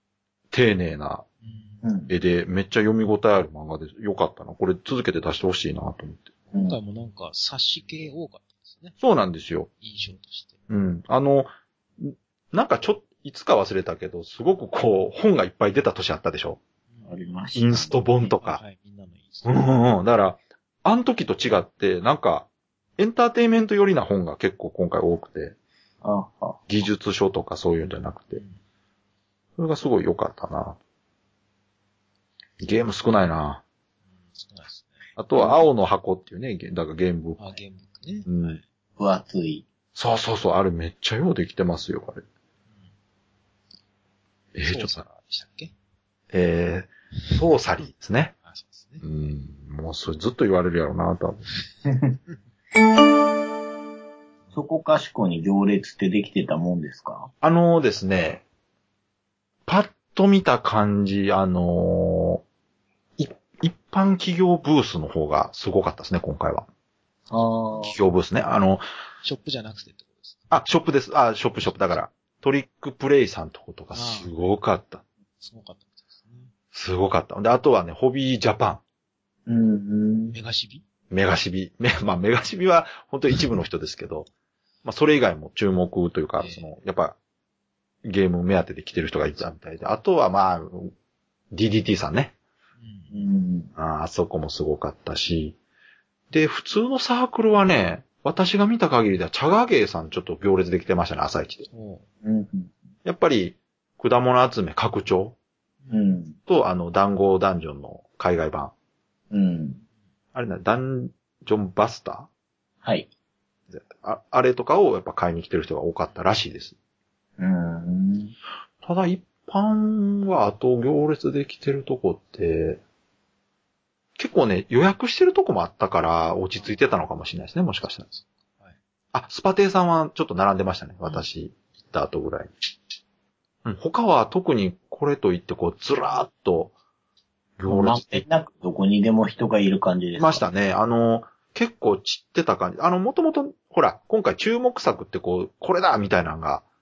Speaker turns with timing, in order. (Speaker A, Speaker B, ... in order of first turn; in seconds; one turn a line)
Speaker A: 0.5-1.2
Speaker B: 1.4-1.8
Speaker C: 1.8-2.1
Speaker A: 2.1-6.3
Speaker B: 6.5-9.0
Speaker A: 9.0-9.7
Speaker B: 9.8-10.5
Speaker A: 10.7-16.6
Speaker B: 16.9-17.4
Speaker C: 17.1-17.9
Speaker A: 17.5-18.6
Speaker B: 18.2-19.6
Speaker A: 19.4-22.5
Speaker A: 23.0-25.6
Speaker C: 26.0-26.6
Speaker A: 26.7-28.4
Speaker A: 29.6-30.8
Speaker A: 32.6-33.6
Speaker B: 34.3-35.0
Speaker A: 35.2-37.6
Speaker B: 37.4-38.6
Speaker A: 38.2-38.6
Speaker C: 39.0-39.6
Speaker A: 39.9-42.2
Speaker A: 44.5-45.0
Speaker B: 44.6-45.7
Speaker A: 46.3-48.3
Speaker B: 48.4-49.0
Speaker A: 49.0-51.5
Speaker C: 51.9-52.2
Speaker C: 54.5-57.3
Speaker A: 57.4-58.4
Speaker A: 59.6-62.4
Speaker A: 63.2-66.7
Speaker C: 67.3-67.9
Speaker A: 67.8-68.8
Speaker B: 69.2-70.6
Speaker A: 70.5-75.0
Speaker B: 71.6-72.0
Speaker B: 73.9-74.3
Speaker B: 75.4-76.5
Speaker A: 76.7-78.8
Speaker C: 79.5-80.3
Speaker B: 80.3-80.8
Speaker A: 81.1-84.3
Speaker A: 84.8-87.2
Speaker B: 86.4-86.7
Speaker A: 88.0-90.9
Speaker A: 91.5-92.3
Speaker B: 92.8-93.2
Speaker C: 93.1-93.7
Speaker A: 93.8-95.5
Speaker A: 96.3-101.7
Speaker B: 101.7-102.0
Speaker C: 102.2-102.7
Speaker A: 103.0-105.3
Speaker C: 105.9-106.3
Speaker A: 106.5-108.7
Speaker C: 109.3-109.8
Speaker A: 110.3-112.3
Speaker C: 112.8-113.1
Speaker A: 113.7-116.7
Speaker C: 117.4-118.3
Speaker A: 118.8-122.8
Speaker A: 124.2-128.0
Speaker B: 126.5-126.8
Speaker B: 128.0-128.8
Speaker A: 129.1-132.5
Speaker A: 133.6-136.7
Speaker A: 137.6-138.2
Speaker C: 137.7-140.5
Speaker A: 140.2-146.6